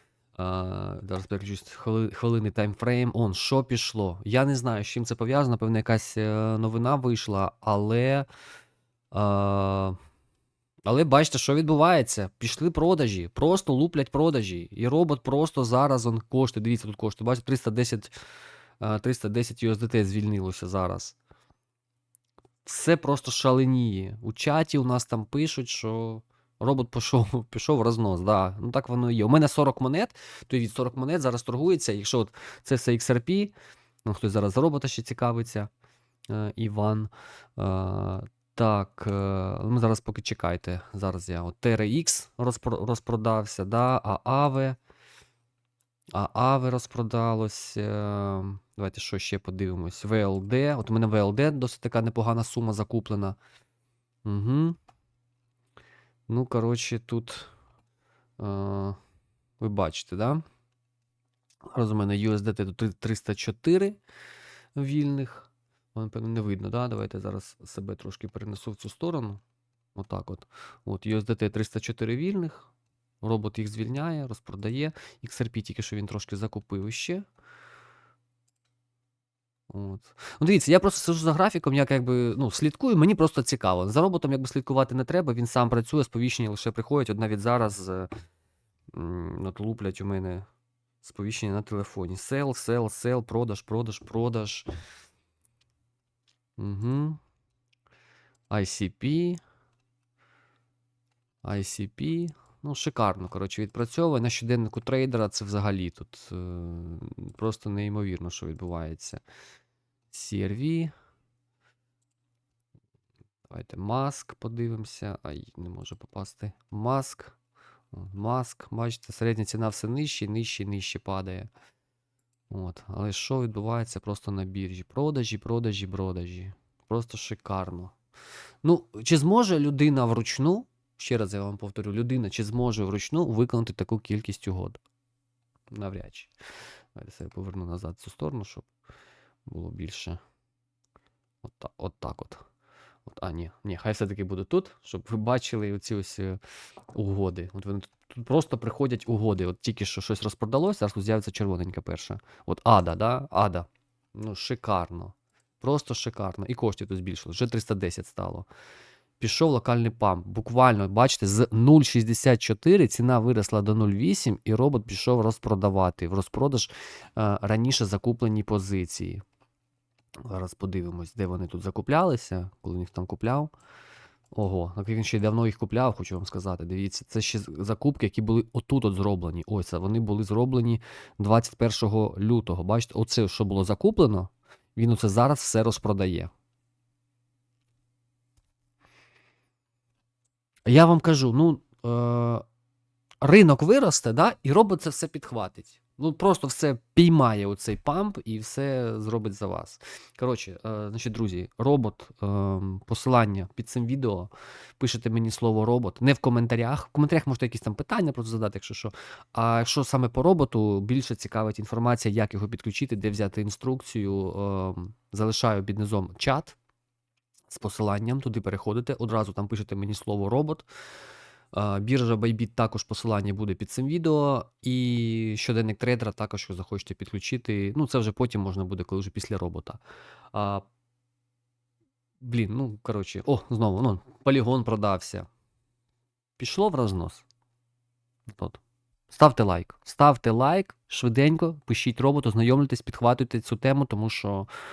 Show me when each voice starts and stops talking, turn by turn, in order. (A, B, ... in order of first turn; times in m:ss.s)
0:00.4-0:08.3 A
0:09.1-0:10.0 A
0:10.8-0:18.1 A
0:18.8-0:21.2 A
0:22.6-0:33.5 A
0:34.0-0:35.7 A
0:36.3-0:44.8 A
0:46.1-0:53.4 A
0:54.2-0:54.8 A
0:56.3-0:57.5 A
0:58.4-0:59.0 A
0:59.6-1:00.4 A
1:01.7-1:04.0 A
1:04.8-1:09.4 A
1:09.9-1:12.7 A
1:13.2-1:17.2 A
1:19.7-1:28.1 A
1:28.9-1:30.4 A
1:31.0-1:34.7 A
1:36.6-1:37.2 A
1:38.5-1:39.4 A
1:41.4-1:49.2 A
1:50.1-1:50.9 A
1:53.5-1:57.3 A
1:57.9-2:01.5 A
2:02.5-2:07.9 A
2:08.6-2:14.8 A
2:15.7-2:16.3 A
2:16.9-2:18.7 A
2:19.5-2:20.2 A
2:21.4-2:22.4 A
2:23.0-2:26.4 A
2:26.9-2:38.5 A
2:39.2-2:49.2 A
2:50.2-2:53.5 A
2:54.3-3:06.3 A
3:10.6-3:12.4 A
3:13.2-3:36.6 A
3:37.5-3:40.7 A
3:41.5-3:49.8 A
3:50.3-3:50.6 A
3:52.2-3:55.3 A
3:56.4-3:57.2 A
3:58.3-4:04.5 A